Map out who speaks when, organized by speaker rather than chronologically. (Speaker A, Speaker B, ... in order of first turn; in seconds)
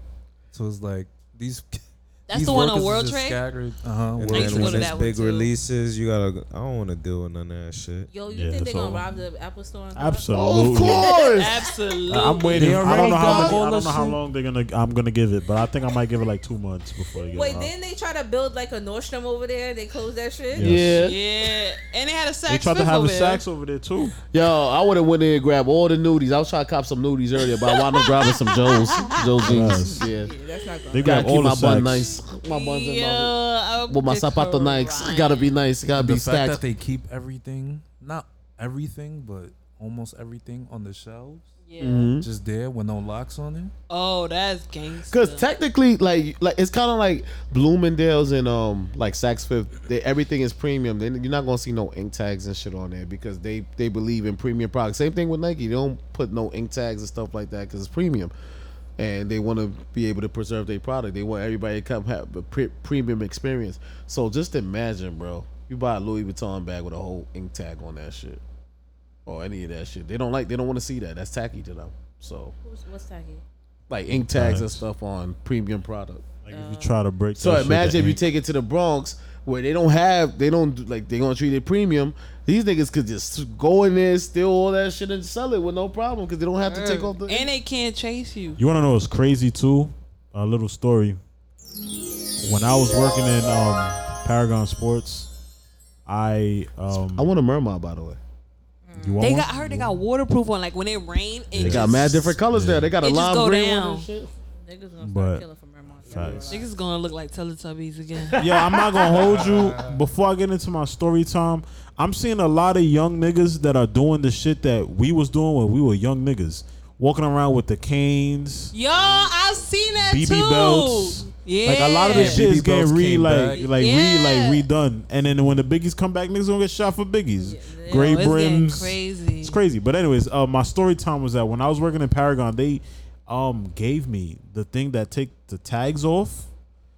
Speaker A: 0.5-5.1, 35.9-41.5, 42.1-43.7, 109.4-109.7, 122.3-123.7
Speaker B: 2.3-3.4, 4.3-5.5, 11.2-13.6, 21.0-23.4, 32.2-35.5, 41.7-42.1, 43.9-45.4, 86.7-88.6, 99.2-102.3, 103.0-104.1, 106.5-108.8, 118.7-122.4, 123.6-124.7, 127.9-129.6
Speaker C: 4.2-8.1, 12.6-13.3
Speaker D: 8.1-11.6, 13.3-13.6, 17.3-20.8, 29.6-31.3, 72.6-73.4, 76.5-76.9, 98.8-99.3, 104.6-106.7, 122.1-122.4, 127.4-128.4
Speaker E: 8.3-9.2, 9.9-11.2, 12.1-17.7, 20.5-21.1, 22.5-24.1, 29.4-30.1, 30.9-32.1, 74.1-74.8, 76.4-78.2, 88.6-91.2, 92.4-95.3, 96.1-97.3, 99.0-100.0, 101.5-102.9, 105.0-105.5, 106.0-106.6, 108.4-118.7, 120.1-136.5
Speaker F: 10.3-11.5, 13.0-13.5, 20.6-21.2, 24.3-30.3, 31.0-33.4, 33.9-36.6, 41.8-42.3, 45.1-58.3, 59.0-68.4, 69.3-72.5, 73.9-76.2, 77.4-87.5, 97.2-98.2, 101.6-104.3